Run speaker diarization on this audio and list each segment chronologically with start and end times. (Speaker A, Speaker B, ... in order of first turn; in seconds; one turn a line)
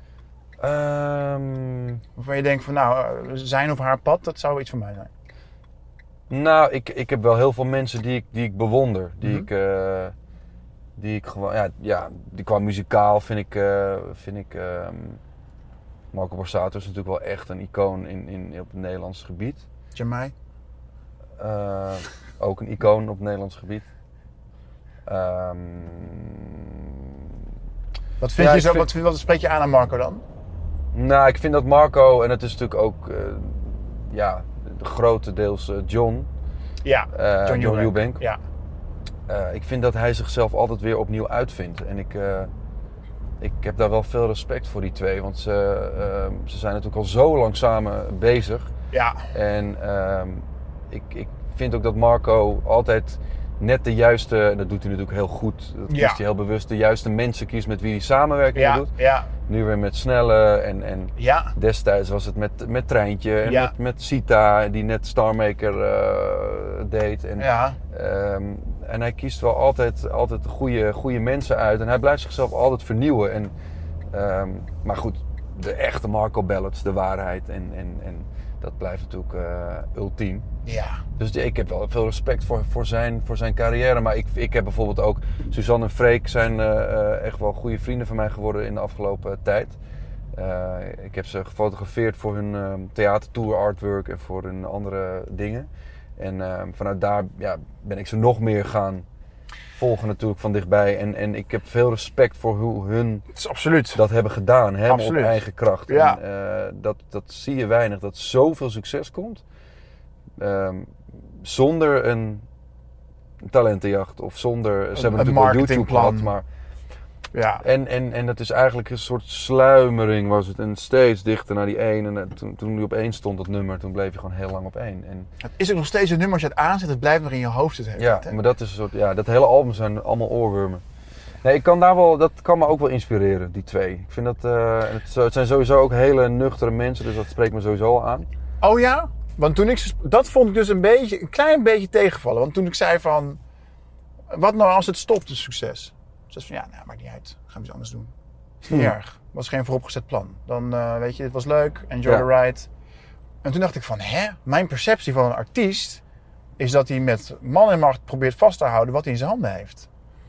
Speaker A: 0.6-2.0
Speaker B: 2.2-5.1
Speaker A: 6.3-10.2
Speaker B: 9.2-9.5
Speaker A: 11.0-15.2
Speaker A: 16.1-19.7
Speaker B: 19.9-20.3
Speaker A: 21.4-23.9
Speaker A: 25.1-27.3
Speaker B: 28.2-30.2
Speaker A: 28.4-28.9
Speaker A: 30.9-36.3
Speaker B: 36.8-38.4
Speaker A: 37.1-38.2
Speaker A: 39.3-42.5
Speaker A: 43.4-48.7
Speaker B: 48.9-49.3
Speaker A: 49.3-58.9
Speaker B: 55.9-56.2
Speaker B: 58.5-59.3
Speaker A: 59.5-73.5
Speaker B: 61.2-61.5
Speaker B: 63.4-63.7
Speaker B: 67.4-67.8
Speaker A: 74.1-80.5
Speaker B: 80.7-81.0
Speaker A: 81.2-89.8
Speaker A: 90.3-99.1
Speaker A: 99.8-103.3
Speaker B: 103.3-104.0
Speaker A: 103.9-109.4
Speaker B: 104.9-106.2
Speaker A: 110.4-112.5
Speaker A: 113.4-116.5
Speaker B: 114.9-116.3
Speaker B: 117.3-117.6
Speaker A: 117.6-125.3
Speaker B: 125.4-128.4
Speaker A: 128.0-130.8
Speaker A: 131.4-138.3
Speaker B: 138.6-143.4
Speaker B: 144.3-148.1
Speaker B: 148.6-152.7
Speaker B: 153.4-156.0
Speaker B: 156.6-159.9